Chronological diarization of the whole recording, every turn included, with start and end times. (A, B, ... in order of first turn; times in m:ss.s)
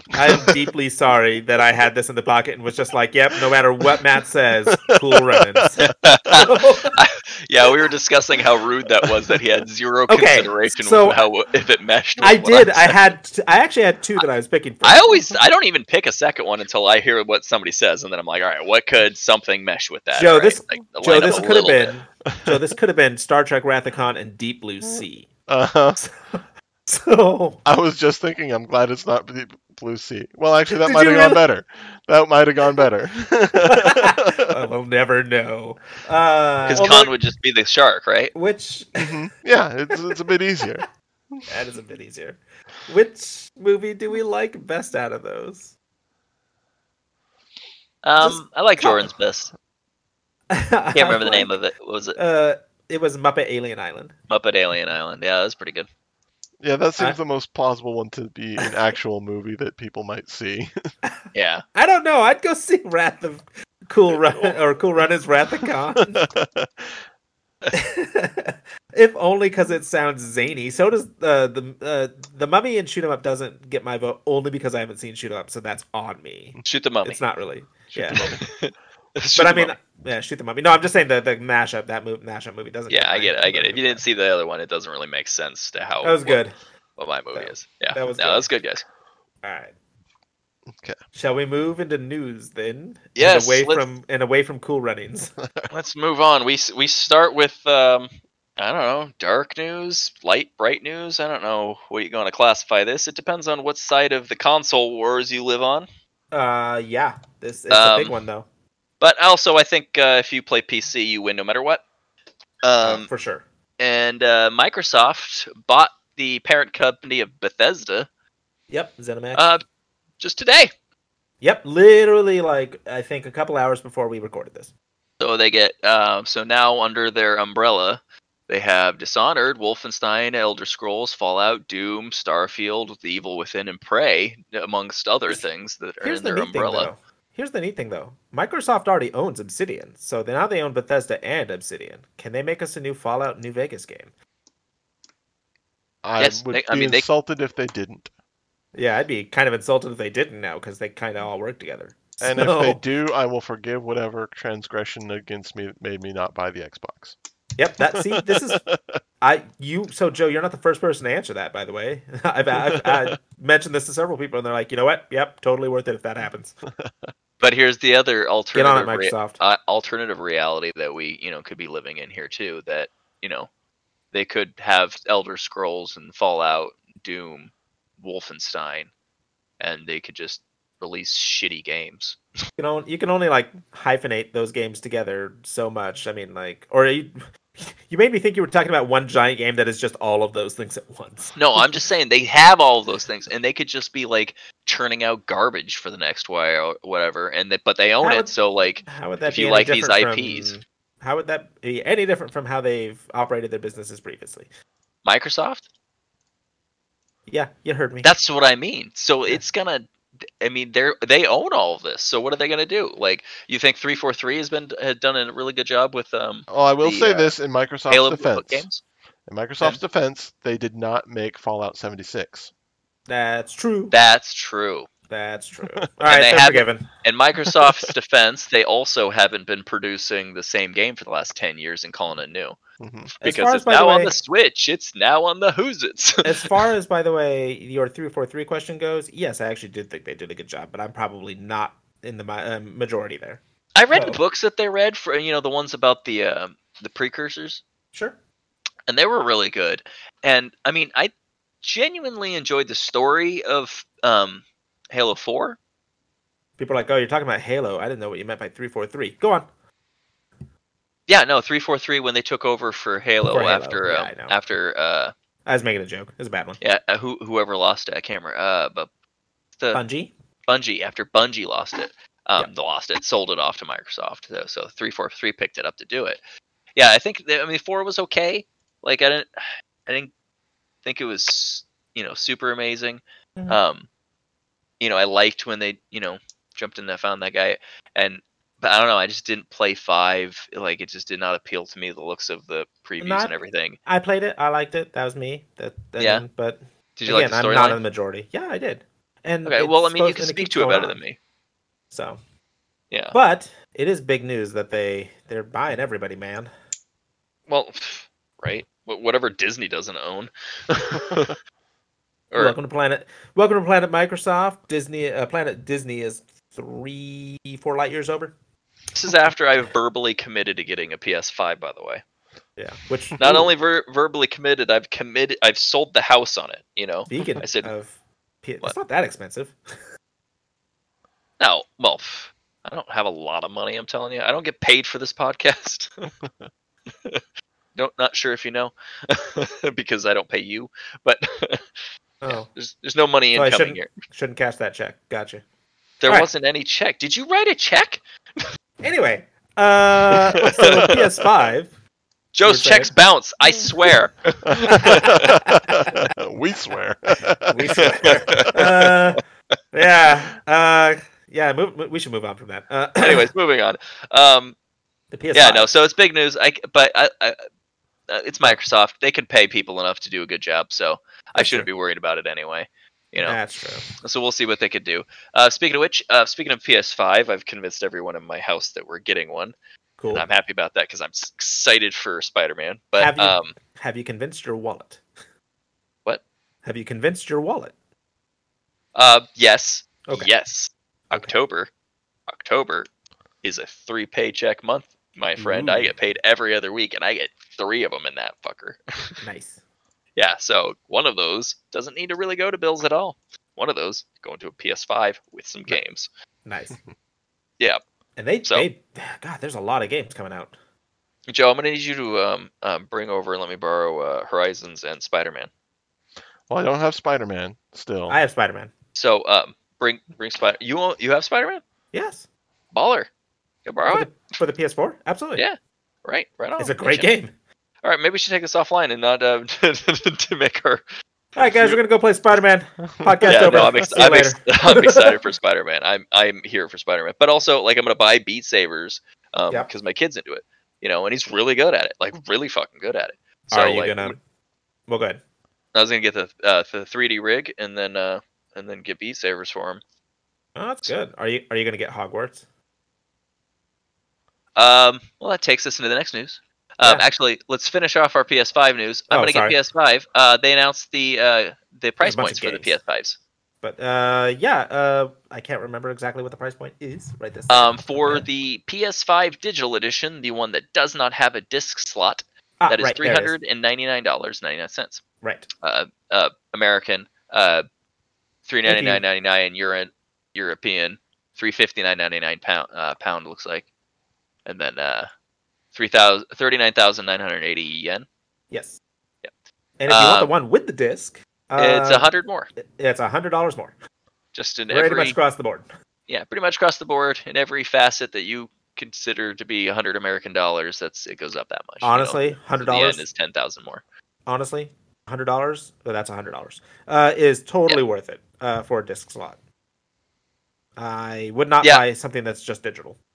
0:00.1-0:00.5 A
0:00.1-0:07.0 B
0:04.7-0:05.9 A
0:05.8-0:13.0 C
0:10.1-0:11.2 B
0:12.2-0:15.3 B
0:14.8-0:21.9 C
0:20.1-0:25.3 B
0:22.3-0:22.6 A
0:25.5-0:26.0 A
0:26.0-0:27.6 B
0:27.6-0:34.5 A
0:30.8-0:31.4 B
0:33.5-0:37.1 B
0:36.7-0:38.3 C
0:38.3-0:39.2 B
0:39.0-0:41.5 A
0:39.9-0:40.2 B
0:41.5-0:45.7 B
0:48.0-0:49.5 C
0:48.2-0:49.1 B
0:50.5-0:51.5 B
0:50.9-0:52.2 C
0:52.2-0:54.2 B
0:54.3-0:55.9 C
0:56.6-1:00.8 A
1:01.3-1:01.6 C
1:01.7-1:06.3 B
1:05.6-1:07.0 A
1:07.7-1:18.3 B
1:16.6-1:17.2 C
1:17.9-1:18.4 A
1:18.1-1:19.7 C
1:19.4-1:24.0 B
1:22.9-1:26.4 C
1:26.0-1:26.6 B
1:27.0-1:28.8 C
1:27.3-1:28.5 B
1:29.4-1:29.7 B
1:30.7-1:31.0 A
1:31.1-1:35.3 B
1:33.2-1:33.8 C
1:35.4-1:35.7 A
1:35.7-1:45.9 C
1:46.3-1:48.4 B
1:47.7-1:48.2 C
1:49.0-1:51.8 C
1:52.6-1:53.1 C
1:52.8-1:53.4 B
1:53.8-1:58.1 C
1:58.7-1:59.4 B
1:59.3-1:59.6 C
2:00.2-2:00.7 C
2:01.4-2:04.7 B
2:05.2-2:16.9 C
2:16.0-2:24.1 B
2:26.0-2:28.1 A
2:26.2-2:27.0 C
2:28.7-2:32.8 B
2:32.2-2:37.2 A
2:37.6-2:38.6 B
2:37.8-2:39.0 A
2:39.2-2:46.6 B
2:42.6-2:43.1 A
2:46.7-2:47.1 A
2:47.4-2:53.5 C
2:48.5-2:49.4 B
2:54.1-2:58.9 C
2:59.6-3:02.2 C
3:02.6-3:11.8 B
3:11.4-3:20.6 C
3:18.0-3:24.5 B
3:25.0-3:25.6 C
3:27.3-3:28.1 B
3:28.0-3:29.9 C
3:30.4-3:37.3 C
3:36.5-3:38.7 A
3:37.9-3:38.8 C
3:39.2-3:42.5 A
3:43.1-3:43.9 B
3:43.9-3:44.9 C
3:45.1-3:46.8 B
3:46.0-3:52.6 C
3:52.8-3:53.1 A
3:53.2-3:56.6 C
3:53.2-3:54.1 B
3:56.2-4:04.2 B
4:03.8-4:07.6 C
4:08.9-4:15.6 C
4:16.6-4:19.5 B
4:21.1-4:25.1 C
4:23.2-4:24.4 B
4:25.4-4:26.6 B
4:26.6-4:28.9 C
4:29.7-4:30.1 B
4:30.5-4:36.2 C
4:36.8-4:40.1 C
4:40.8-4:43.9 C
4:44.8-4:53.8 C
4:53.0-5:01.0 B
4:56.0-4:56.2 C
4:57.0-4:57.8 C
4:59.4-5:01.2 C
5:01.9-5:02.2 B
5:02.9-5:03.2 C
5:03.1-5:06.5 B
5:07.5-5:11.3 C
5:12.3-5:18.3 B
5:18.9-5:22.0 C
5:22.6-5:23.5 B
5:23.2-5:27.7 C
5:27.1-5:29.6 B
5:31.4-5:35.9 C
5:37.8-5:41.7 C
5:42.2-5:42.5 B
5:42.3-5:43.9 C
5:43.3-5:45.4 B
5:46.0-5:48.4 C
5:48.8-5:51.7 B
5:50.1-5:51.0 C
5:52.3-5:55.4 C
5:52.4-5:52.9 B
5:54.5-5:57.9 A
5:54.8-5:55.6 B
5:57.5-6:03.3 B
5:57.8-5:59.2 C
6:03.0-6:04.6 C
6:05.1-6:05.7 B
6:05.3-6:07.4 C
6:08.1-6:13.4 C
6:11.4-6:11.7 B
6:13.2-6:13.9 B
6:14.0-6:19.5 C
6:20.0-6:20.2 B
6:20.1-6:23.6 C
6:23.0-6:25.0 B
6:26.6-6:27.7 B
6:28.9-6:31.7 C
6:32.3-6:32.9 C
6:33.4-6:39.1 C
6:35.4-6:36.0 B
6:39.2-6:39.6 B
6:40.2-6:46.1 C
6:46.4-6:46.8 B
6:48.2-6:50.6 B
6:51.3-6:55.5 C
6:56.5-6:58.2 A
6:58.1-6:58.7 B
6:58.9-7:01.6 C
7:01.9-7:02.2 B
7:02.7-7:03.1 C
7:03.6-7:04.1 C
7:03.8-7:05.4 B
7:05.4-7:07.1 C
7:06.6-7:07.3 B
7:07.8-7:10.8 C
7:11.4-7:15.2 B
7:11.4-7:11.8 C
7:13.0-7:13.7 A
7:13.3-7:24.2 C
7:23.5-7:24.2 B
7:24.9-7:25.2 B
7:25.7-7:29.8 C
7:30.6-7:32.4 B
7:34.6-7:43.2 C
7:39.1-7:39.6 B
7:42.0-7:42.8 B
7:43.6-7:48.3 B
7:47.5-7:55.0 C
7:52.6-7:53.3 B
7:55.2-7:55.5 B
7:55.6-7:57.6 C
7:58.4-8:03.6 C
7:58.6-7:59.0 B
8:04.4-8:05.1 C
8:05.7-8:08.1 C
8:08.5-8:08.8 B
8:09.8-8:13.7 B
8:09.9-8:10.3 C
8:11.6-8:12.5 C
8:14.3-8:15.2 C
8:14.7-8:15.7 B
8:16.1-8:23.8 C
8:21.8-8:23.0 B
8:24.2-8:29.4 B
8:30.8-8:33.0 B